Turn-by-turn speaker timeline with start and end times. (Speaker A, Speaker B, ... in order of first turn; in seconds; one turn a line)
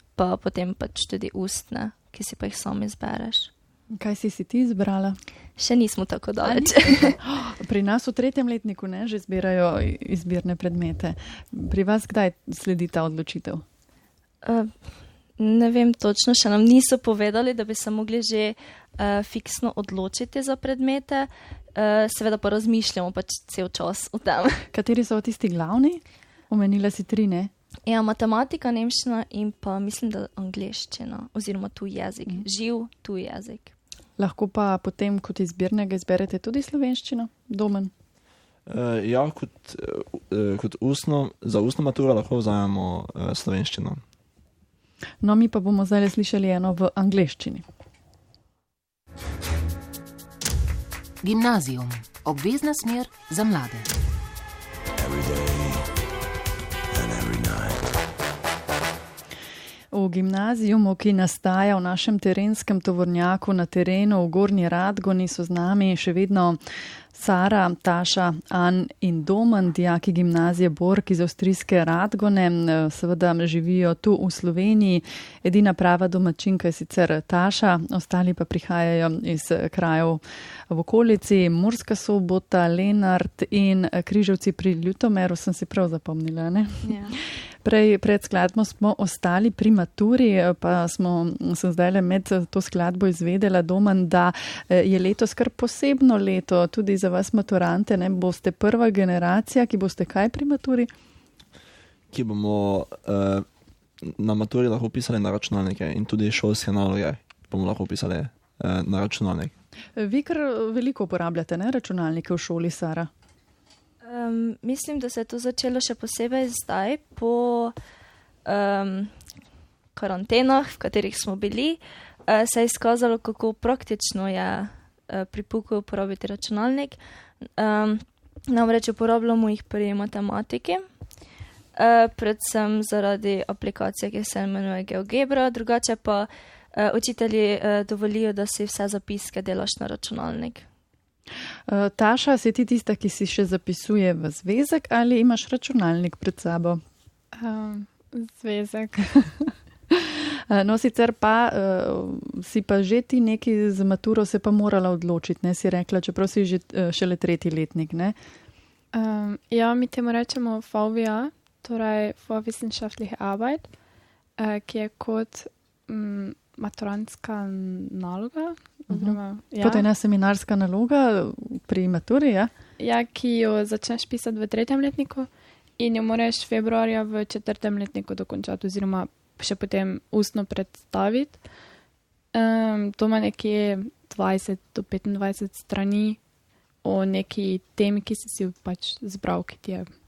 Speaker A: 0.2-3.5
Speaker B: 3.9-5.2
Speaker A: 5.6-7.2
Speaker B: 6.4-13.6
Speaker A: 14.4-14.7
Speaker A: 15.4-24.6
Speaker B: 24.7-27.5
Speaker A: 27.9-33.7
Speaker B: 34.2-37.9
Speaker C: 38.7-44.0
Speaker B: 45.2-47.6
Speaker D: 51.2-53.9
Speaker D: 55.0-56.0
Speaker D: 56.9-58.0
Speaker B: 59.9-66.6
Speaker B: 67.1-100.9
Speaker A: 86.8-87.2
Speaker C: 102.1-103.5
Speaker C: 104.0-109.5
Speaker B: 110.0-113.1
Speaker A: 114.0-117.8
Speaker A: 118.5-119.1
Speaker A: 120.0-127.0
Speaker A: 127.6-130.8
Speaker A: 131.8-140.7
Speaker B: 141.7-146.8
Speaker E: 147.4-149.2
Speaker B: 149.9-158.2
Speaker E: 158.9-163.7
Speaker E: 164.4-169.8
Speaker B: 168.9-172.5
Speaker E: 172.8-181.4
Speaker E: 182.3-186.2
Speaker E: 186.8-189.9